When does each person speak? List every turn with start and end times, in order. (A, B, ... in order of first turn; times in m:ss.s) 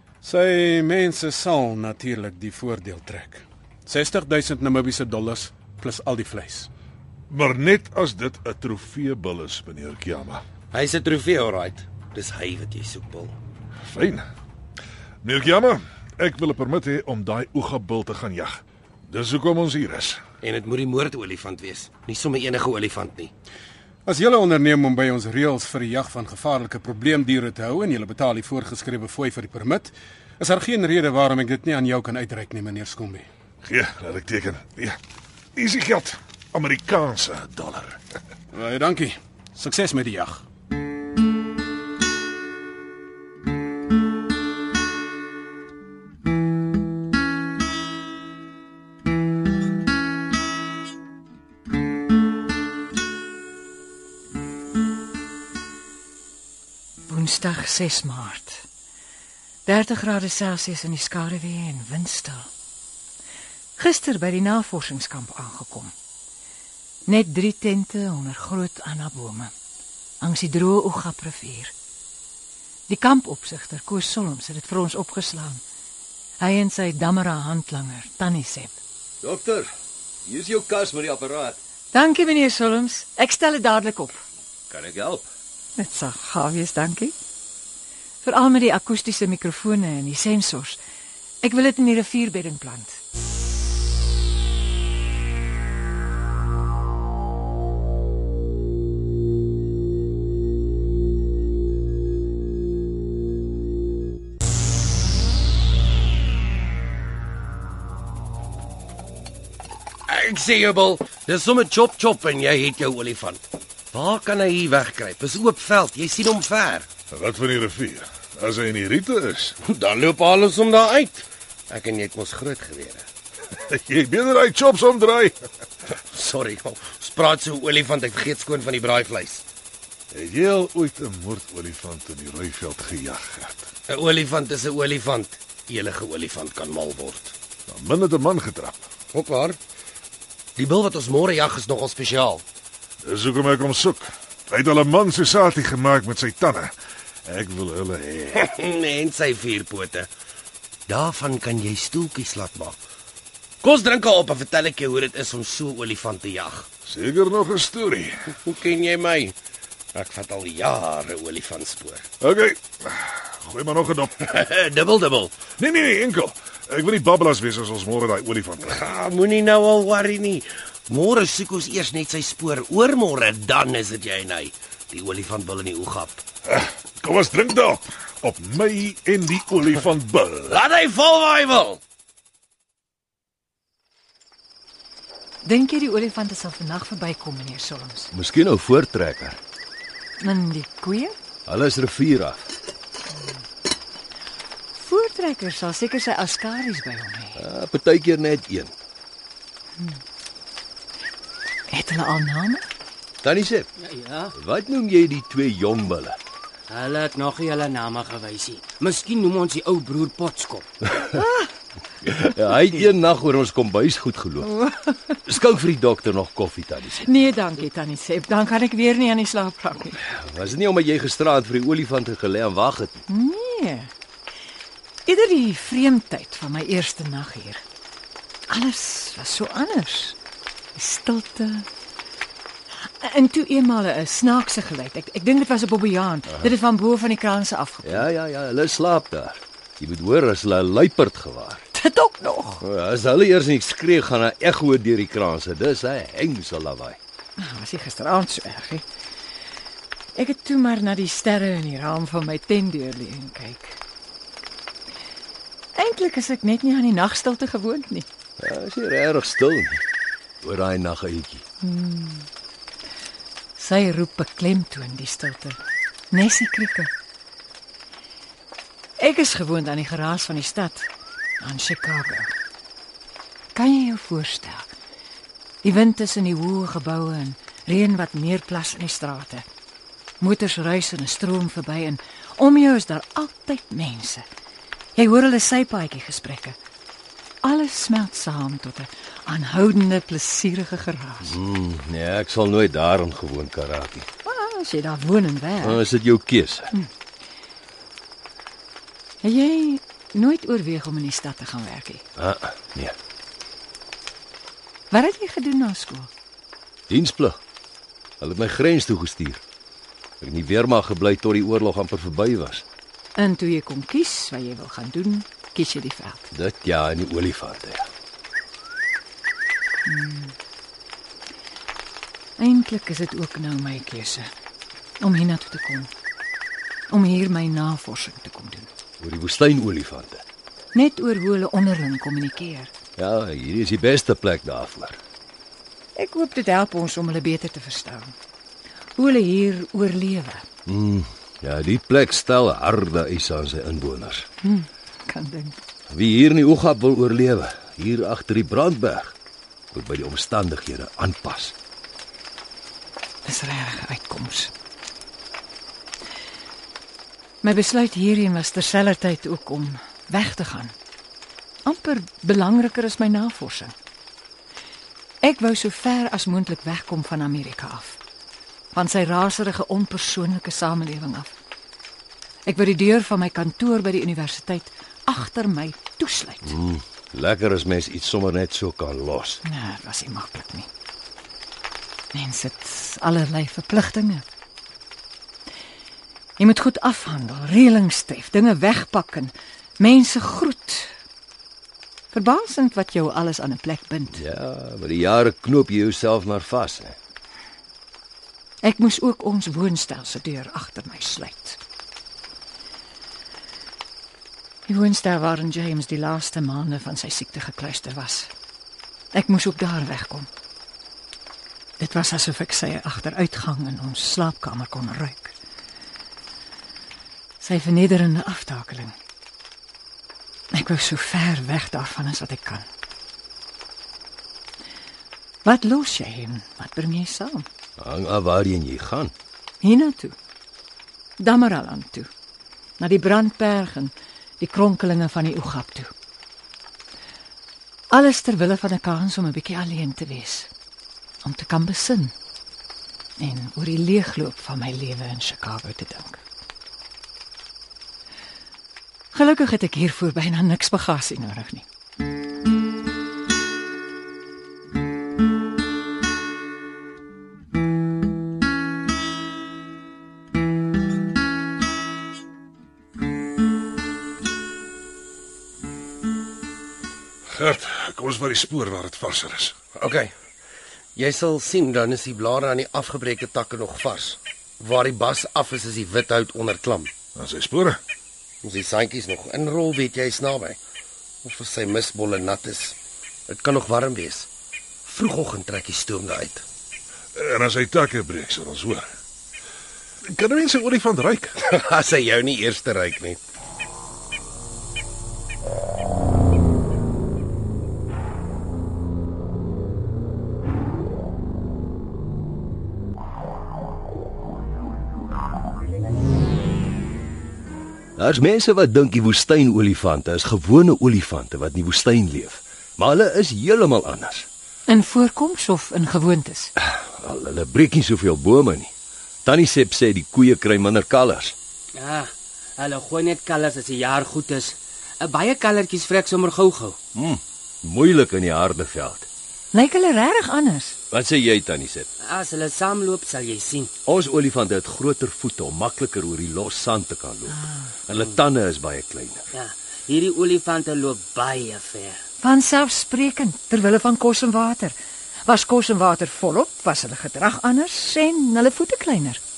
0:00.2-0:06.7 A
0:07.3-0:10.4 B
0:10.7-0:13.3 C
0:13.8-0:14.2 B
0:15.2-0:20.2 B
0:20.4-0:23.3 C
0:24.0-0:33.3 A
0:33.6-0:35.0 B
0:35.5-0:38.0 B
0:38.5-0:40.4 A
0:57.1-0:58.6 D
0:59.6-1:02.5 D
1:03.8-1:05.9 D
1:07.1-1:09.5 D
1:10.2-1:11.7 D
1:12.9-1:15.6 D
1:16.4-1:18.7 D
1:19.2-1:19.7 E
1:20.2-1:21.6 E
1:21.9-1:24.2 D
1:24.7-1:25.2 E
1:25.8-1:27.1 D
1:28.2-1:30.8 D
1:31.4-1:33.0 D
1:50.1-1:56.9 C
1:57.1-1:59.6 B
1:59.6-2:03.1 C
2:03.6-2:05.3 B
2:06.1-2:09.4 C
2:10.1-2:13.7 B
2:13.9-2:17.3 C
2:17.7-2:18.8 B
2:19.1-2:19.6 C
2:20.6-2:22.4 C
2:23.0-2:26.7 B
2:27.2-2:28.4 B
2:28.4-2:30.1 C
2:30.9-2:32.8 C
2:33.6-2:36.7 C
2:36.8-2:38.2 B
2:38.3-2:39.4 C
2:39.9-2:42.1 C
2:42.2-2:44.2 B
2:44.2-2:45.4 C
2:45.6-2:48.8 B
2:48.6-2:56.2 C
2:56.5-3:00.6 B
3:00.5-3:01.8 C
3:05.4-3:08.1 D
3:08.1-3:09.4 E
3:10.2-3:11.2 D
3:11.5-3:12.5 E
3:14.7-3:17.4 D
3:17.4-3:18.7 E
3:21.7-3:22.6 D
3:23.2-3:23.7 E
3:23.8-3:24.3 F
3:24.3-3:26.2 E
3:26.7-3:30.7 F
3:31.1-3:31.5 D
3:32.0-3:34.5 E
3:34.4-3:35.1 D
3:35.3-3:37.1 E
3:37.0-3:40.0 D
3:40.1-3:43.0 E
3:43.1-3:43.9 D
3:45.1-3:47.6 D
3:48.5-3:50.2 D
3:50.8-3:51.6 D
3:52.8-3:58.1 D
3:57.8-4:01.6 E
4:01.7-4:02.6 D
4:02.6-4:07.0 E
4:07.4-4:08.8 D
4:10.1-4:13.8 D
4:15.8-4:18.1 D
4:18.4-4:19.8 E
4:20.4-4:21.4 E
4:21.6-4:22.3 D
4:23.6-4:25.6 D
4:26.1-4:26.9 D
4:29.0-4:32.3 D
4:33.5-4:34.7 D
4:35.6-4:39.4 D
4:40.2-4:44.2 D
4:45.0-4:46.6 D
4:47.4-4:51.4 D
4:51.2-4:54.1 E
4:54.2-4:55.8 D
4:55.6-4:56.7 E
4:59.2-5:02.0 D
5:02.2-5:03.0 E
5:04.9-5:06.1 D
5:06.9-5:07.4 E
5:08.2-5:09.4 E
5:10.2-5:12.6 E
5:13.2-5:16.3 D
5:16.3-5:17.9 E
5:19.8-5:20.3 D
5:22.4-5:24.3 D
5:25.0-5:25.9 D
5:26.9-5:28.7 D
5:29.0-5:30.2 E
5:30.7-5:32.7 D
5:33.0-5:35.0 E
5:36.0-5:38.1 D
5:39.0-5:40.4 D
5:40.6-5:44.3 E
5:44.4-5:45.6 D
5:45.9-5:49.1 E
5:49.7-5:51.5 E
5:53.2-5:54.5 D
5:57.4-6:00.7 D
6:01.6-6:03.7 D
6:05.2-6:08.0 D
6:08.7-6:11.4 D
6:12.5-6:16.5 D
6:16.5-6:19.4 E
6:19.4-6:20.7 D
6:22.1-6:24.2 D
6:26.4-6:30.9 D
6:32.1-6:34.2 D
6:34.1-6:37.0 E
6:38.6-6:41.6 D
6:44.7-6:48.3 D
6:49.1-6:50.3 D
6:51.8-6:55.4 D
6:57.4-6:58.9 D
7:00.5-7:02.6 D
7:05.4-7:07.5 D
7:07.8-7:09.1 E
7:09.6-7:10.1 D
7:11.2-7:12.1 D
7:12.8-7:15.9 D
7:17.9-7:20.5 D
7:21.2-7:22.1 D
7:23.2-7:26.2 D
7:29.1-7:31.6 D
7:47.3-7:49.5 B
7:49.8-7:50.1 C
7:51.0-7:56.9 C
7:57.2-7:57.8 B
7:58.4-8:00.6 C
8:01.2-8:02.8 C
8:03.3-8:04.3 C
8:04.8-8:06.4 C
8:07.1-8:08.9 B
8:10.1-8:11.4 B
8:11.4-8:13.2 C
8:28.0-8:34.3 E
8:34.7-8:36.5 D
8:36.6-8:38.7 E
8:39.2-8:41.4 E
8:41.8-8:46.8 F
8:46.9-8:49.0 E
8:49.5-8:50.8 D
8:50.9-8:51.9 E
8:52.0-8:53.7 F
8:53.9-8:59.2 E
8:57.4-8:57.7 D
8:59.3-9:02.0 F
9:02.2-9:04.8 D
9:05.2-9:09.2 D